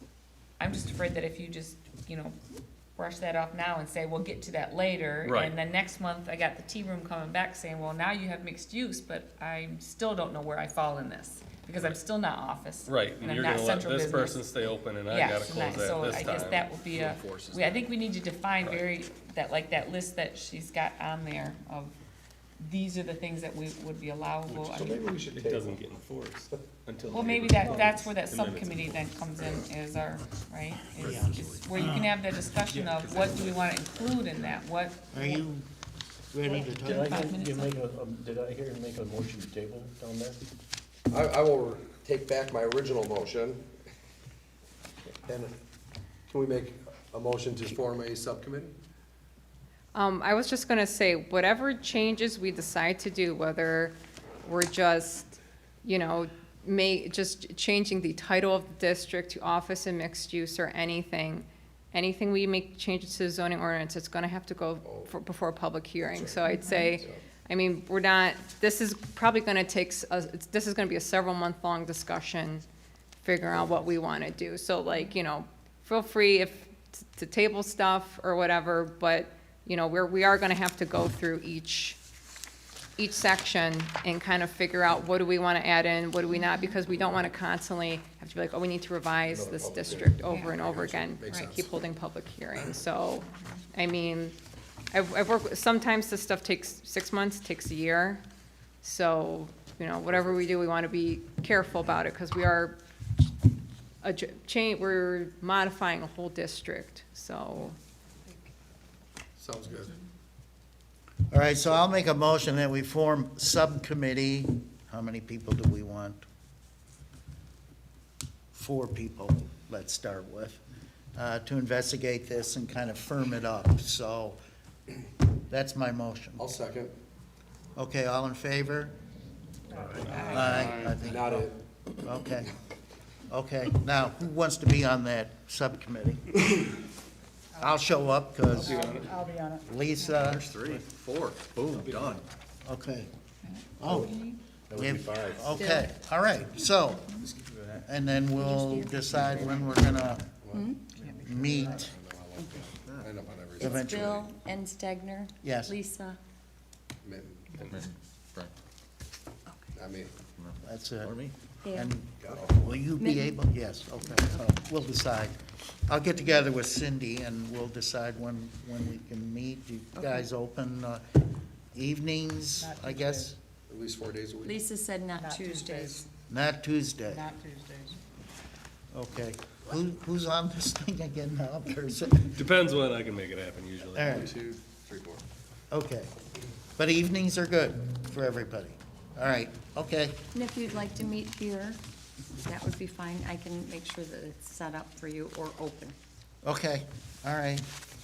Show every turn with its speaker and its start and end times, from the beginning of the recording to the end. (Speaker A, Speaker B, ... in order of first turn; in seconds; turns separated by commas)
Speaker A: 0.6-2.4, Speaker A: 3.0-14.5, Speaker B: 5.2-5.5, Speaker B: 12.8-17.8, Speaker A: 15.1-22.0, Speaker A: 22.6-25.0, Speaker B: 24.6-29.7, Speaker C: 24.8-25.9, Speaker A: 27.1-35.4, Speaker D: 31.0-32.1, Speaker B: 31.0-31.6, Speaker B: 32.7-34.6, Speaker D: 35.1-35.7, Speaker D: 36.3-37.2, Speaker A: 36.6-37.7, Speaker E: 36.8-40.4, Speaker C: 41.1-43.6, Speaker C: 46.3-48.7, Speaker F: 47.9-48.2, Speaker G: 49.9-72.6, Speaker G: 73.2-82.0, Speaker G: 83.0-94.3, Speaker C: 89.4-90.0, Speaker F: 89.7-90.6, Speaker C: 90.7-91.6, Speaker F: 91.3-91.6, Speaker G: 94.9-98.2, Speaker G: 98.8-102.8, Speaker G: 104.0-107.8, Speaker C: 109.4-109.9, Speaker D: 111.3-116.2, Speaker D: 118.5-120.6, Speaker D: 121.1-124.4, Speaker D: 125.5-126.5, Speaker C: 126.4-126.9, Speaker D: 127.8-128.9, Speaker H: 129.8-130.2, Speaker B: 129.9-130.8, Speaker D: 130.2-132.5, Speaker C: 131.1-131.6, Speaker D: 133.3-136.4, Speaker D: 137.6-140.5, Speaker B: 138.5-139.1, Speaker H: 138.8-139.4, Speaker B: 140.3-141.0, Speaker I: 140.3-142.2, Speaker B: 141.7-142.2, Speaker D: 142.6-143.1, Speaker A: 143.4-144.4, Speaker D: 143.8-144.2, Speaker E: 143.8-144.1, Speaker E: 144.7-145.6, Speaker D: 144.7-147.2, Speaker D: 147.8-150.3, Speaker F: 148.4-149.2, Speaker F: 150.5-150.8, Speaker H: 151.0-151.6, Speaker D: 151.0-151.9, Speaker C: 151.9-154.2, Speaker F: 152.3-152.7, Speaker F: 153.6-156.2, Speaker D: 153.6-154.2, Speaker D: 155.4-155.7, Speaker C: 157.0-157.7, Speaker B: 157.5-157.9, Speaker C: 159.8-160.1, Speaker I: 160.4-161.2, Speaker D: 160.6-171.0, Speaker F: 161.6-161.9, Speaker C: 162.2-162.7, Speaker F: 162.9-163.3, Speaker F: 169.9-170.2, Speaker D: 171.7-173.4, Speaker C: 173.7-174.5, Speaker F: 174.4-176.1, Speaker D: 176.3-177.3, Speaker H: 177.2-177.7, Speaker D: 178.9-182.4, Speaker B: 182.3-184.3, Speaker D: 183.9-184.3, Speaker C: 184.2-185.2, Speaker D: 185.7-186.1, Speaker D: 186.8-190.2, Speaker F: 190.3-191.8, Speaker F: 192.3-195.9, Speaker D: 196.4-197.7